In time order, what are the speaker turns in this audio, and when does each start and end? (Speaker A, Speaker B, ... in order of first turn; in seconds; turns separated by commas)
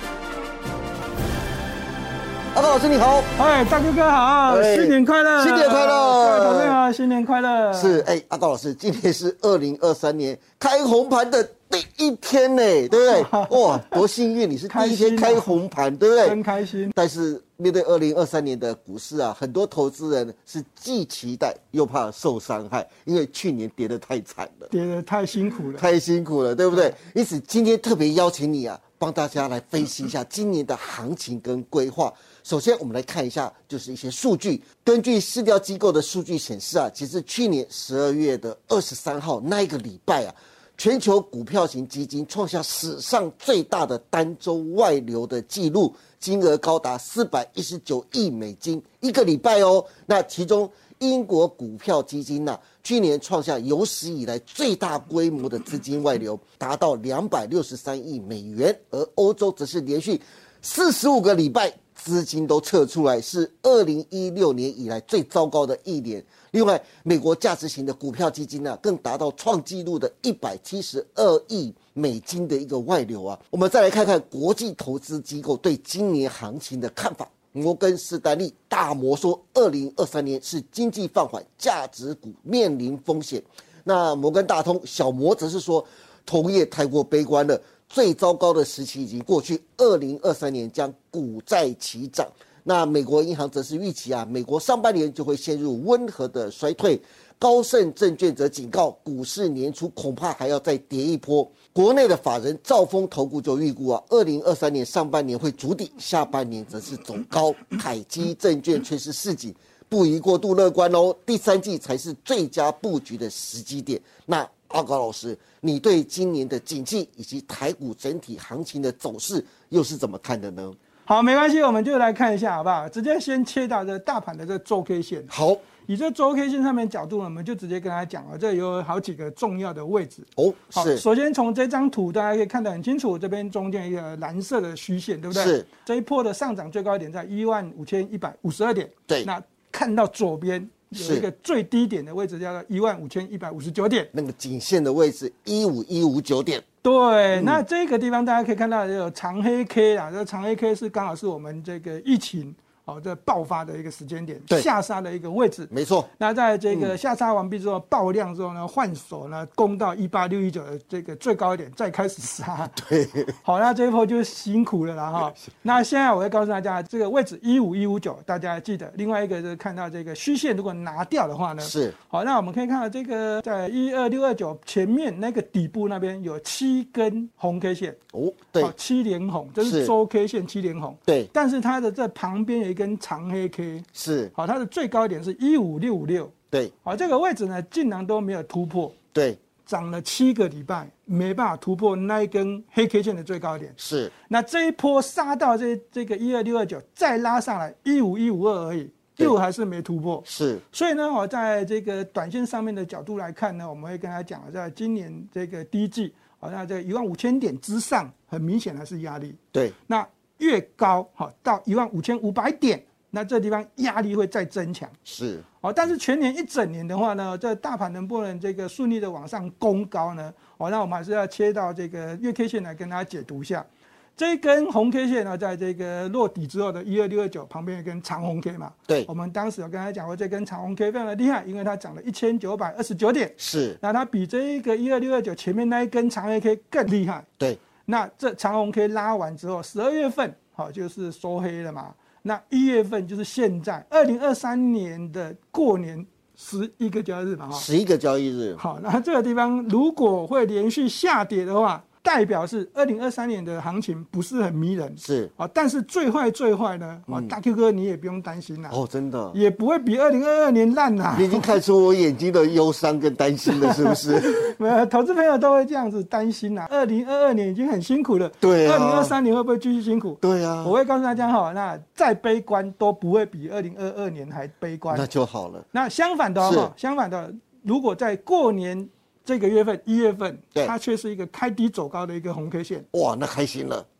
Speaker A: 2.5-3.3, Speaker B: 3.4-8.1, Speaker A: 4.5-6.8, Speaker A: 7.7-16.4, Speaker B: 12.9-14.0, Speaker B: 14.7-15.6, Speaker B: 16.2-16.9, Speaker A: 16.9-24.7, Speaker B: 24.7-25.9, Speaker A: 25.7-120.8, Speaker B: 121.0-125.3, Speaker A: 125.3-125.7, Speaker B: 125.8-144.1, Speaker A: 130.3-131.0, Speaker A: 135.3-135.7, Speaker A: 140.9-141.3, Speaker A: 144.1-146.6, Speaker B: 146.8-162.8, Speaker A: 147.3-147.6, Speaker A: 155.7-156.1, Speaker A: 162.7-163.3, Speaker B: 163.4-178.0, Speaker A: 171.6-171.9, Speaker A: 178.1-178.7, Speaker B: 178.6-188.9, Speaker A: 179.6-179.9, Speaker A: 181.1-181.3, Speaker A: 183.9-184.3, Speaker A: 189.1-189.4, Speaker B: 189.6-215.0, Speaker A: 193.8-194.1, Speaker A: 200.2-200.6, Speaker A: 215.0-215.4, Speaker B: 215.6-237.3, Speaker A: 233.4-233.8, Speaker B: 237.8-247.7, Speaker A: 247.5-248.6, Speaker B: 248.6-258.8, Speaker A: 255.0-255.3, Speaker A: 257.1-257.3, Speaker A: 258.7-259.4, Speaker B: 259.3-261.5, Speaker A: 261.1-264.5, Speaker B: 263.4-275.0, Speaker A: 268.4-269.2, Speaker A: 270.2-270.8, Speaker A: 274.9-275.7, Speaker B: 275.7-282.9, Speaker A: 276.4-276.7, Speaker A: 282.9-283.9